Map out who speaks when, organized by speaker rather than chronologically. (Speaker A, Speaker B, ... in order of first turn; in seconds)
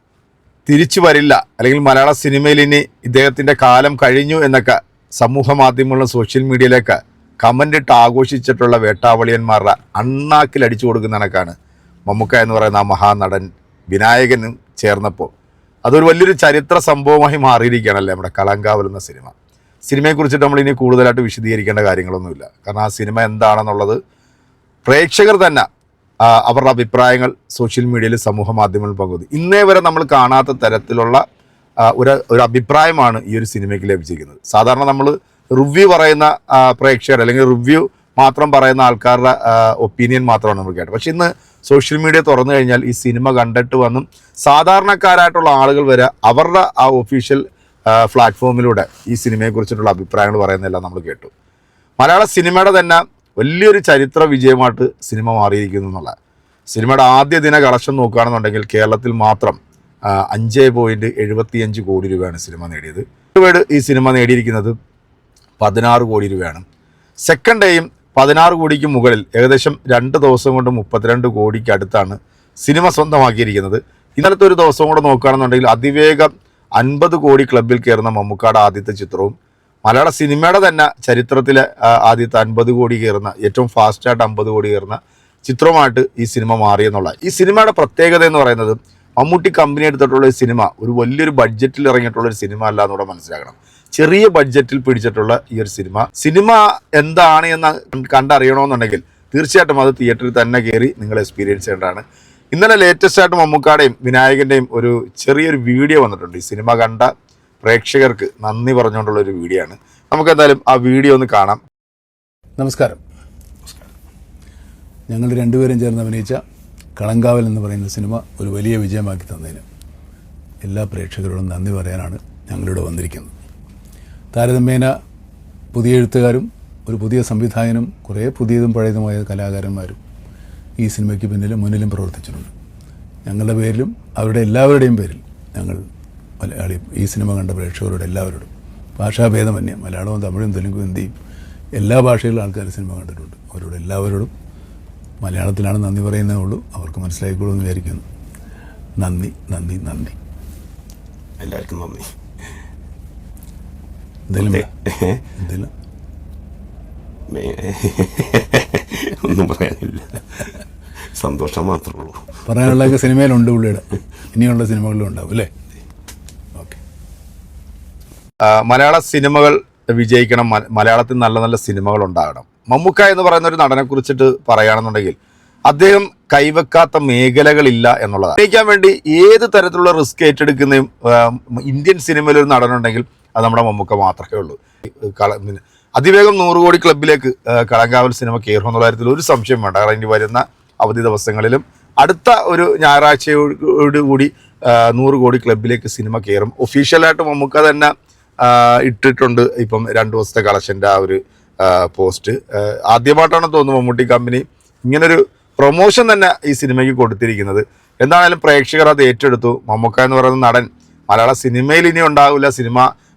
Speaker A: 0.7-11.5, 12.1-15.3, 15.8-19.3, 19.9-24.0, 24.9-25.6, 26.2-31.2, 31.8-51.3, 52.0-56.1, 56.7-59.6, 60.1-64.7, 65.6-66.6, 67.3-107.1, 107.6-111.6, 168.4-175.2, 175.7-184.6, 185.1-212.9
Speaker B: 112.6-113.0, 115.1-116.4, 117.0-119.6, 120.6-123.3, 124.3-124.9, 125.7-130.0, 130.8-132.5, 133.2-135.8, 136.4-141.1, 141.8-144.3, 145.2-148.1, 149.0-150.2, 154.3-154.7, 155.4-155.7, 162.4-165.5, 166.5-166.8
Speaker C: 151.4-152.1, 154.4-155.2, 157.3-160.5, 161.1-162.4